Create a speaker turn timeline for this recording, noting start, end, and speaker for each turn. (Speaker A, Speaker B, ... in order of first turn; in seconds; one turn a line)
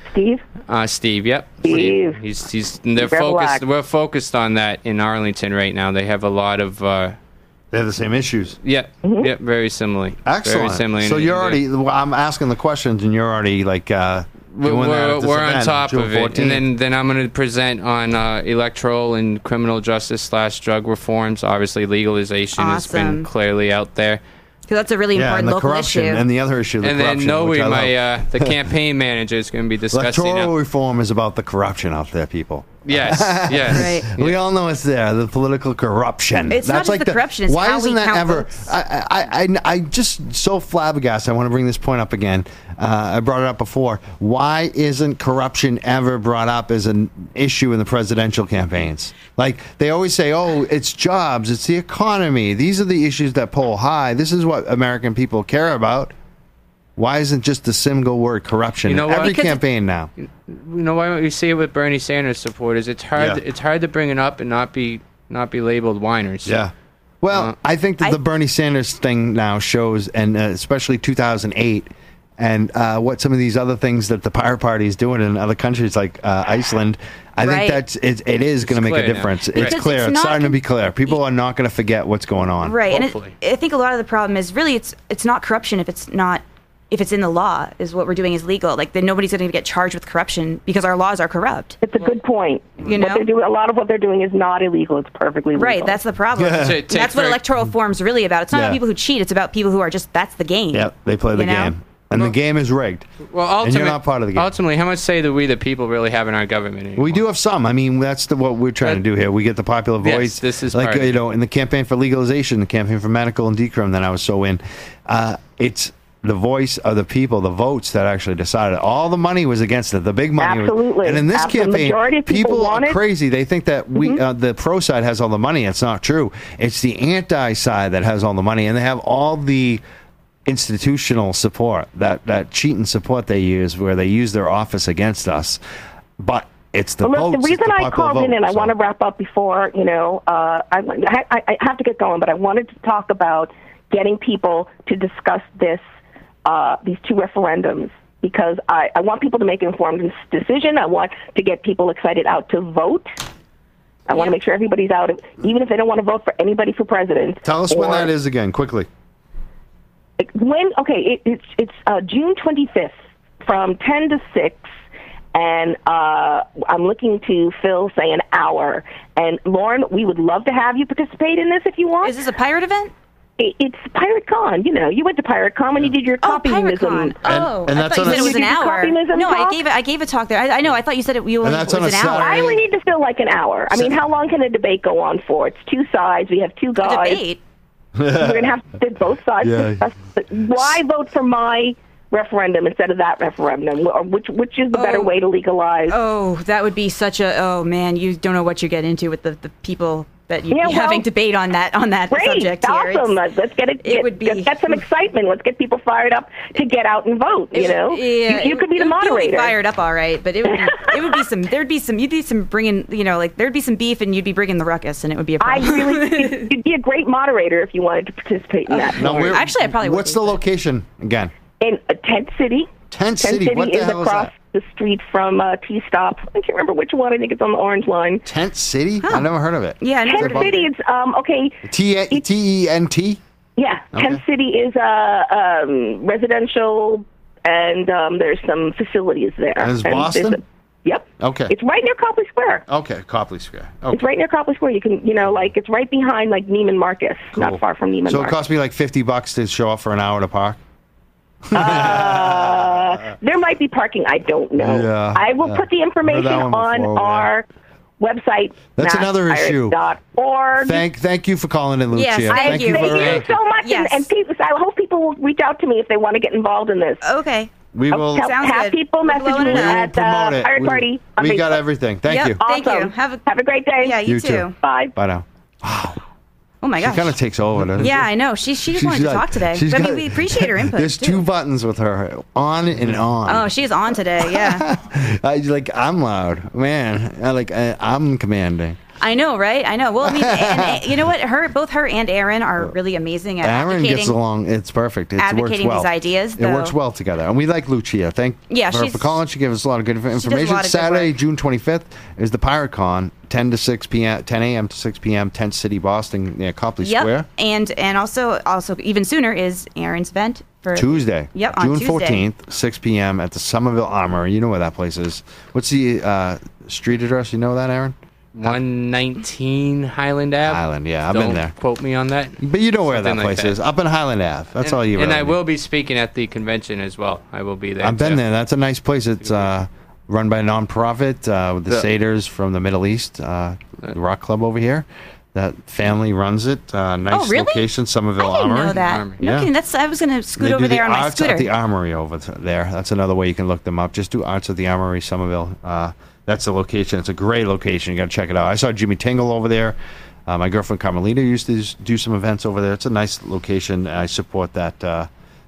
Speaker A: 0.1-0.4
Speaker B: 0.7-7.2
Speaker A: 1.6-2.2
Speaker A: 3.0-3.6
Speaker C: 7.7-8.6
Speaker B: 8.6-11.6
Speaker A: 9.0-9.3
Speaker C: 10.2-16.6
Speaker B: 14.6-24.2
Speaker D: 22.6-23.3
Speaker D: 24.7-26.2
Speaker C: 25.1-28.5
Speaker B: 26.8-30.5
Speaker C: 29.9-56.1
Speaker B: 32.9-34.4
Speaker D: 33.7-34.1
Speaker D: 36.5-38.7
Speaker C: 57.0-60.1
Speaker B: 58.8-59.4
Speaker D: 59.2-59.6
Speaker B: 60.2-66.6
Speaker C: 63.1-63.4
Speaker C: 66.4-82.8
Speaker D: 77.4-77.8
Speaker B: 78.6-79.8
Speaker D: 79.5-80.6
Speaker D: 82.6-91.8
Speaker B: 82.9-83.3
Speaker A: 91.8-96.0
Speaker D: 92.8-93.3
Speaker D: 95.5-101.7
Speaker C: 96.3-96.8
Speaker B: 96.6-97.4
Speaker C: 98.5-98.8
Speaker C: 100.7-103.0
Speaker B: 103.3-107.2
Speaker C: 103.6-104.5
Speaker C: 107.0-129.8
Speaker B: 110.0-111.2
Speaker A: 120.4-123.0
Speaker C: 130.4-135.6
Speaker C: 136.2-138.7
Speaker A: 137.0-145.8
Speaker A: 146.4-153.1
Speaker A: 154.1-158.1
Speaker C: 157.4-158.9
Speaker A: 160.2-164.7
Speaker A: 165.3-172.1
Speaker D: 172.0-172.9
Speaker A: 173.4-177.2
Speaker D: 176.2-182.5
Speaker C: 177.2-178.4
Speaker A: 177.8-179.6
Speaker C: 181.4-182.6
Speaker A: 182.2-187.2
Speaker D: 186.8-187.4
Speaker C: 188.0-188.5
Speaker A: 188.1-195.9
Speaker C: 189.4-189.8
Speaker D: 194.7-195.1
Speaker D: 195.9-203.1
Speaker A: 200.5-201.1
Speaker A: 202.1-209.6
Speaker D: 203.8-204.8
Speaker D: 207.5-216.5
Speaker A: 215.4-219.3
Speaker D: 218.7-220.4
Speaker C: 218.9-221.3
Speaker A: 221.6-228.2
Speaker C: 222.9-224.3
Speaker C: 228.2-230.7
Speaker D: 229.0-230.7
Speaker A: 230.1-232.2
Speaker C: 231.6-233.2
Speaker A: 233.6-242.6
Speaker C: 233.9-234.2
Speaker C: 239.6-240.4
Speaker C: 241.2-241.5
Speaker C: 242.7-244.1
Speaker A: 243.9-248.4
Speaker C: 247.3-250.6
Speaker C: 251.5-252.9
Speaker A: 251.5-257.4
Speaker C: 254.6-257.3
Speaker A: 258.0-260.8
Speaker C: 258.8-259.8
Speaker C: 260.6-263.3
Speaker D: 261.9-264.1
Speaker A: 262.3-267.0
Speaker D: 267.0-267.5
Speaker C: 267.7-268.4
Speaker A: 267.9-271.6
Speaker D: 268.1-269.9
Speaker C: 269.2-272.4
Speaker D: 272.1-273.2
Speaker A: 272.4-274.0
Speaker D: 273.8-274.5
Speaker C: 274.0-276.0
Speaker A: 274.5-274.9
Speaker D: 276.6-277.1
Speaker C: 276.8-278.0
Speaker D: 277.8-281.2
Speaker C: 278.7-283.5
Speaker D: 283.2-284.6
Speaker C: 284.2-288.8
Speaker D: 289.0-294.1
Speaker C: 290.0-291.0
Speaker C: 293.4-307.3
Speaker D: 295.2-296.7
Speaker D: 298.5-299.2
Speaker D: 300.1-301.1
Speaker D: 306.8-312.2
Speaker C: 310.7-318.6
Speaker B: 318.3-323.6
Speaker C: 320.4-321.5
Speaker C: 322.4-325.4
Speaker B: 324.6-328.2
Speaker C: 327.8-339.5
Speaker B: 329.2-329.5
Speaker D: 337.1-337.6
Speaker D: 338.2-341.5
Speaker B: 338.7-339.2
Speaker C: 340.4-349.8
Speaker C: 350.3-355.1